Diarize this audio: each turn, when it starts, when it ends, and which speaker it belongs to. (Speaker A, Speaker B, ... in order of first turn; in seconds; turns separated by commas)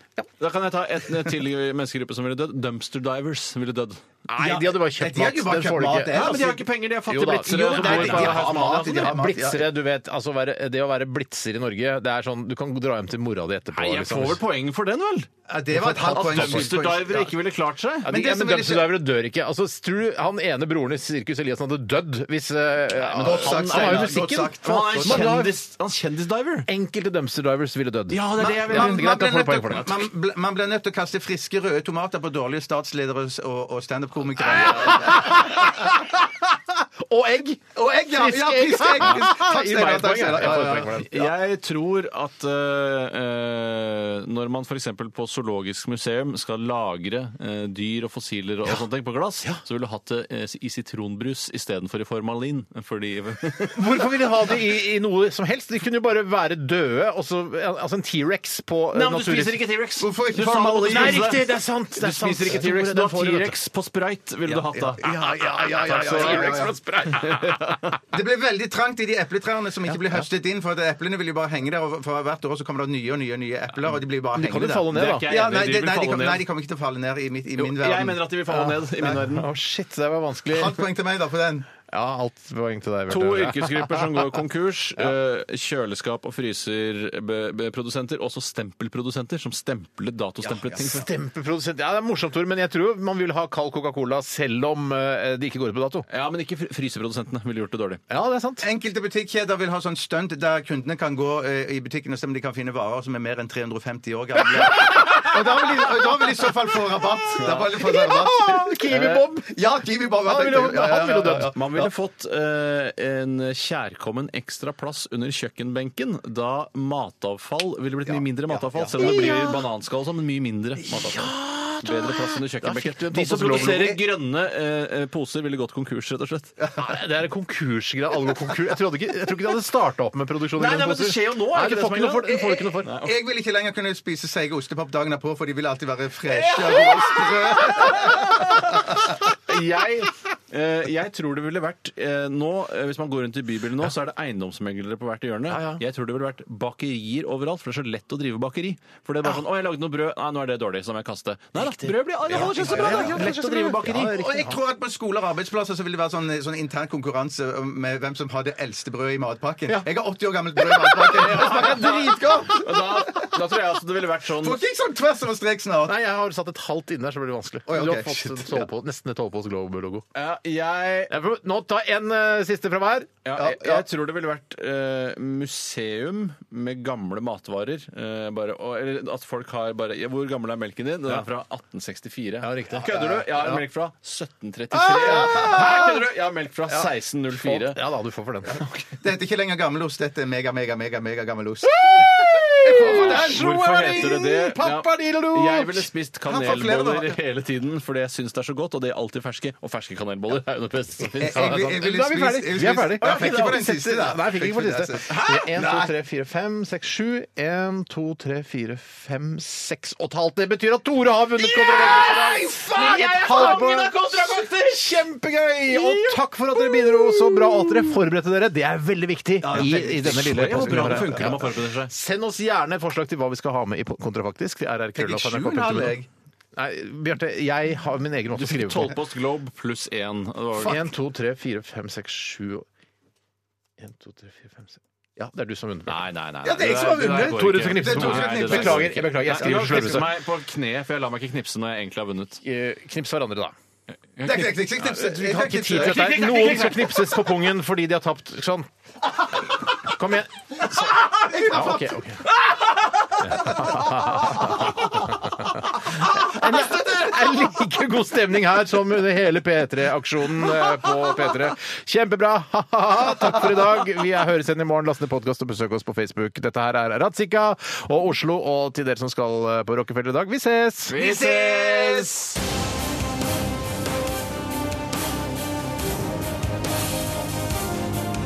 Speaker A: 0.4-4.0, Speaker B: 4.3-6.4, Speaker C: 4.4-6.6, Speaker A: 6.1-9.2, Speaker B: 7.1-14.4, Speaker C: 7.5-9.7, Speaker A: 13.7-15.3, Speaker C: 15.5-17.3, Speaker B: 15.7-16.7, Speaker A: 16.0-18.1, Speaker C: 18.1-18.9, Speaker B: 18.1-25.5, Speaker A: 22.9-26.7, Speaker C: 23.1-25.5, Speaker B: 26.7-30.1, Speaker A: 28.1-29.1, Speaker C: 28.4-35.9, Speaker B: 34.4-41.3, Speaker C: 37.7-41.1, Speaker A: 40.4-54.1, Speaker B: 53.7-59.6, Speaker A: 58.9-65.0, Speaker C: 60.0-61.4, Speaker B: 60.9-63.6, Speaker C: 64.5-66.7, Speaker B: 65.0-67.8, Speaker A: 65.8-68.0, Speaker C: 68.1-78.3, Speaker B: 69.9-70.2, Speaker B: 74.3-75.3, Speaker A: 74.9-76.4, Speaker A: 77.6-79.5, Speaker B: 78.5-80.8, Speaker C: 80.5-81.7, Speaker B: 81.9-84.1, Speaker A: 83.1-91.0, Speaker C: 90.4-91.1, Speaker B: 90.8-96.1, Speaker A: 96.1-98.0, Speaker B: 98.1-98.7, Speaker C: 98.6-111.9, Speaker B: 104.9-105.3, Speaker A: 107.4-107.7, Speaker B: 107.4-109.5, Speaker A: 108.9-109.2, Speaker B: 110.2-111.5, Speaker A: 111.5-126.5, Speaker C: 118.0-119.5, Speaker B: 119.0-119.6, Speaker B: 121.0-124.0, Speaker B: 126.8-132.9, Speaker A: 130.6-133.2, Speaker C: 132.5-139.2, Speaker A: 136.3-154.2, Speaker B: 145.5-145.8, Speaker B: 151.6-154.6, Speaker C: 152.3-163.4, Speaker B: 160.9-161.7, Speaker A: 161.1-164.6, Speaker C: 164.4-166.0, Speaker B: 165.8-170.0, Speaker C: 167.7-168.7, Speaker A: 170.1-171.1, Speaker B: 171.1-173.1, Speaker A: 173.2-187.8, Speaker C: 173.3-173.8, Speaker B: 182.4-183.6, Speaker B: 184.7-186.0, Speaker C: 184.9-185.8, Speaker B: 187.3-188.7, Speaker C: 188.9-194.1, Speaker B: 191.6-195.9, Speaker A: 192.8-201.6, Speaker C: 196.2-197.2, Speaker C: 201.2-205.9, Speaker B: 201.2-226.0, Speaker A: 203.0-203.6, Speaker A: 211.4-215.0, Speaker C: 212.0-213.1, Speaker A: 215.7-217.2, Speaker C: 219.4-221.4, Speaker A: 219.5-221.9, Speaker C: 224.9-226.1, Speaker B: 226.6-229.0, Speaker A: 228.3-230.8, Speaker B: 230.6-232.6, Speaker B: 233.8-236.0, Speaker A: 235.9-242.4, Speaker C: 236.4-240.0, Speaker B: 237.2-240.1, Speaker B: 242.4-243.5, Speaker A: 244.2-244.7, Speaker C: 244.2-246.6, Speaker B: 244.8-248.7, Speaker A: 245.7-247.3, Speaker B: 249.7-250.7, Speaker C: 250.7-252.0, Speaker B: 251.4-252.2, Speaker C: 253.2-254.8, Speaker B: 253.2-272.1, Speaker C: 256.2-257.1, Speaker A: 270.9-272.4